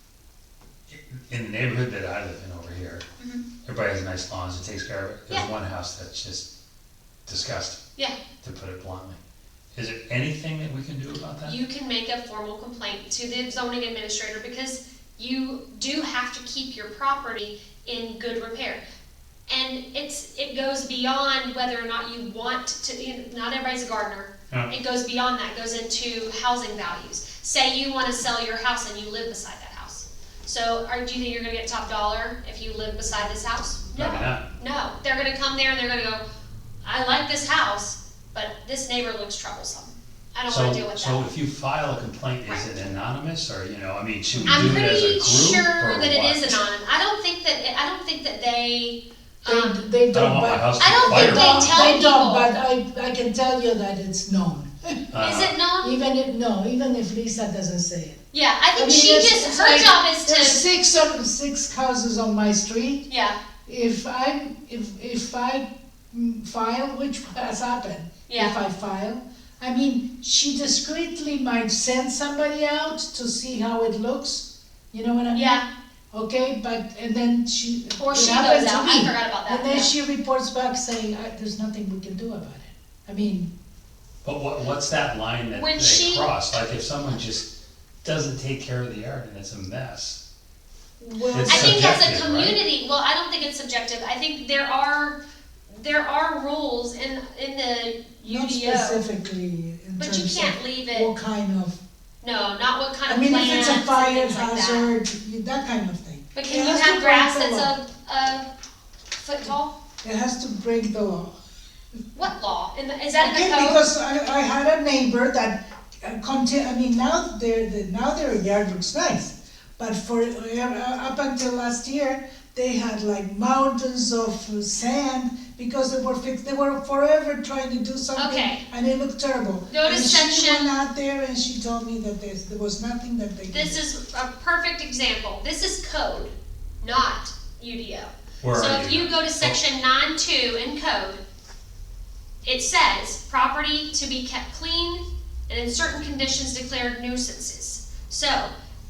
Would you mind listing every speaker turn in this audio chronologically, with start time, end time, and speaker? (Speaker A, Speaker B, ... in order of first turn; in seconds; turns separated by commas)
Speaker A: 0.9-3.0, Speaker A: 3.6-6.5, Speaker A: 7.3-7.8, Speaker A: 8.4-9.2, Speaker A: 9.7-11.6, Speaker B: 11.4-18.8, Speaker B: 19.5-36.2, Speaker A: 34.0-34.4, Speaker B: 36.8-41.2, Speaker A: 40.5-46.6, Speaker C: 44.4-44.8, Speaker B: 44.5-49.9, Speaker C: 49.5-55.0, Speaker A: 50.1-51.9, Speaker B: 50.8-52.5, Speaker A: 55.1-55.6, Speaker B: 55.2-56.0, Speaker C: 55.8-58.2, Speaker B: 58.3-60.6, Speaker C: 58.8-63.0, Speaker B: 63.1-63.4, Speaker C: 63.7-75.6, Speaker B: 68.3-68.6, Speaker B: 75.3-75.6, Speaker C: 76.1-83.5, Speaker B: 78.0-79.9, Speaker A: 84.2-87.5, Speaker B: 85.5-86.3, Speaker A: 88.0-90.2, Speaker C: 91.0-92.0, Speaker A: 91.3-92.6, Speaker B: 91.5-99.0, Speaker C: 98.3-101.8, Speaker B: 100.0-101.1, Speaker B: 102.2-104.9, Speaker C: 103.1-107.7, Speaker B: 106.3-108.5, Speaker B: 109.2-109.8, Speaker C: 110.0-111.4, Speaker B: 112.2-113.8, Speaker C: 113.2-133.8, Speaker B: 128.2-128.6, Speaker B: 129.7-130.7, Speaker B: 133.5-141.2, Speaker A: 138.4-139.6, Speaker B: 142.4-148.5